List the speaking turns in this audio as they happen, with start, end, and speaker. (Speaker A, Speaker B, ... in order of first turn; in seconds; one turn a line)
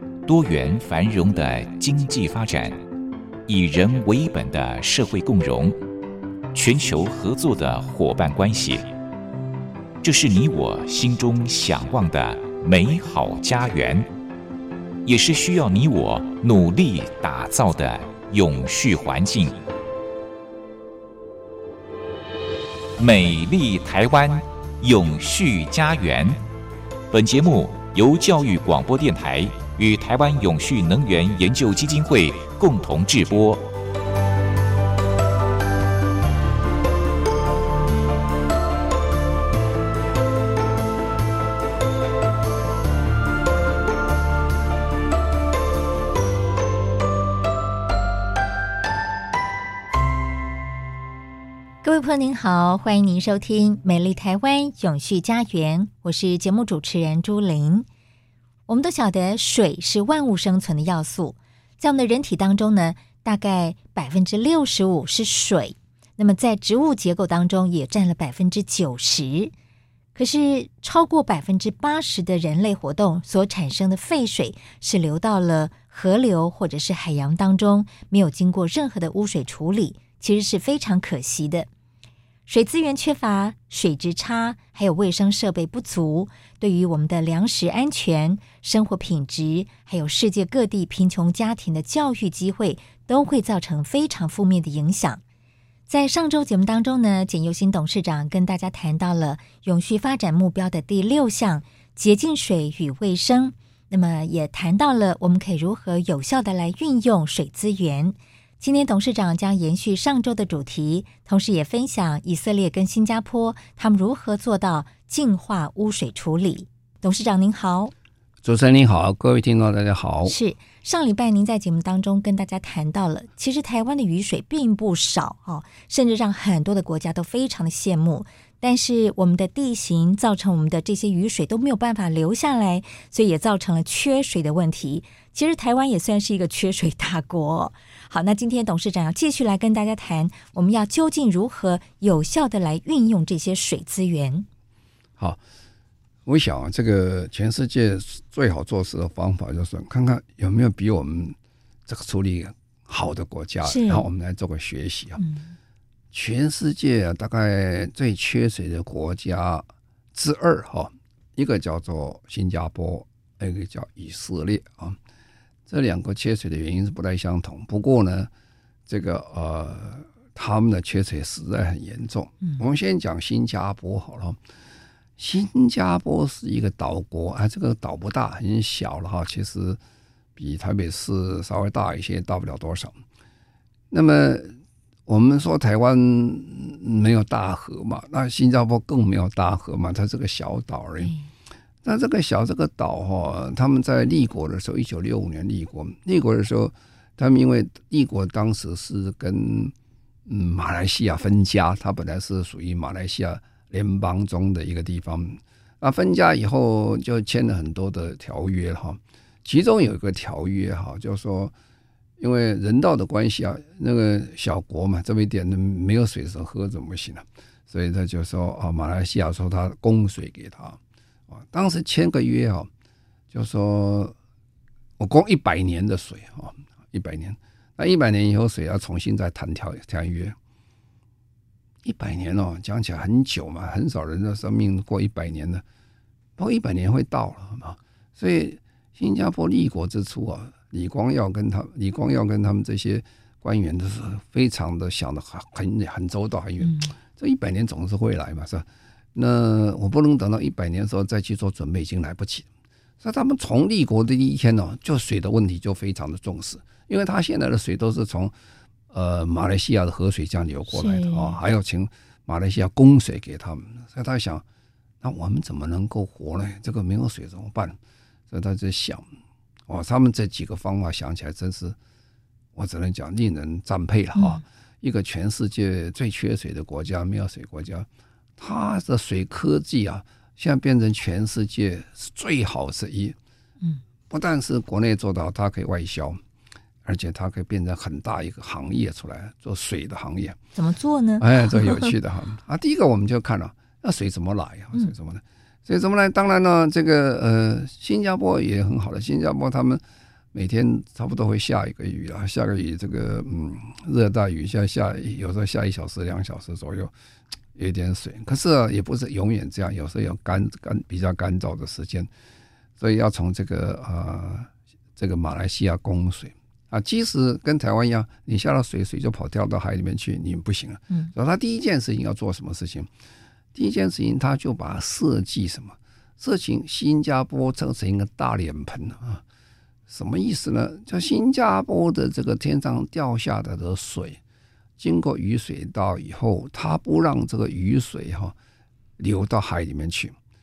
Speaker A: 0.2-2.8
Speaker A: 3.5-5.8
Speaker A: 6.5-8.9
Speaker A: 10.0-14.1
Speaker A: 15.1-19.6
Speaker A: 23.0-26.4
Speaker A: 27.1-33.6
Speaker B: 51.8-57.9
Speaker B: 58.7-69.5
Speaker B: 70.2-81.7
Speaker B: 82.5-95.2
Speaker B: 95.9-117.9
Speaker C: 118.4-120.4
Speaker B: 120.2-144.5
Speaker C: 146.3-155.2
Speaker B: 153.6-154.1
Speaker B: 155.2-155.5
Speaker C: 156.1-165.0
Speaker C: 165.7-168.3
Speaker C: 168.9-174.4
Speaker C: 175.2-179.8
Speaker C: 180.4-183.0
Speaker C: 183.9-191.1
Speaker B: 191.0-191.3
Speaker C: 191.8-199.7
Speaker C: 200.3-211.5
Speaker C: 212.2-220.8
Speaker C: 221.3-222.7
Speaker C: 223.3-224.2
Speaker C: 225.0-230.4
Speaker C: 231.8-235.6
Speaker C: 236.4-252.5
Speaker B: 246.6-246.9
Speaker C: 253.0-258.3
Speaker C: 258.9-264.4
Speaker B: 260.7-261.4
Speaker C: 265.0-267.8
Speaker C: 268.3-269.1
Speaker C: 269.7-271.8
Speaker C: 272.6-283.2
Speaker B: 274.1-274.4
Speaker C: 284.1-286.2
Speaker C: 286.9-290.4
Speaker B: 290.6-291.9
Speaker C: 291.2-299.8
Speaker C: 300.3-306.9
Speaker C: 307.6-312.1
Speaker C: 312.8-322.9
Speaker C: 323.5-329.2
Speaker C: 329.9-334.2
Speaker C: 334.8-338.4
Speaker C: 339.0-340.1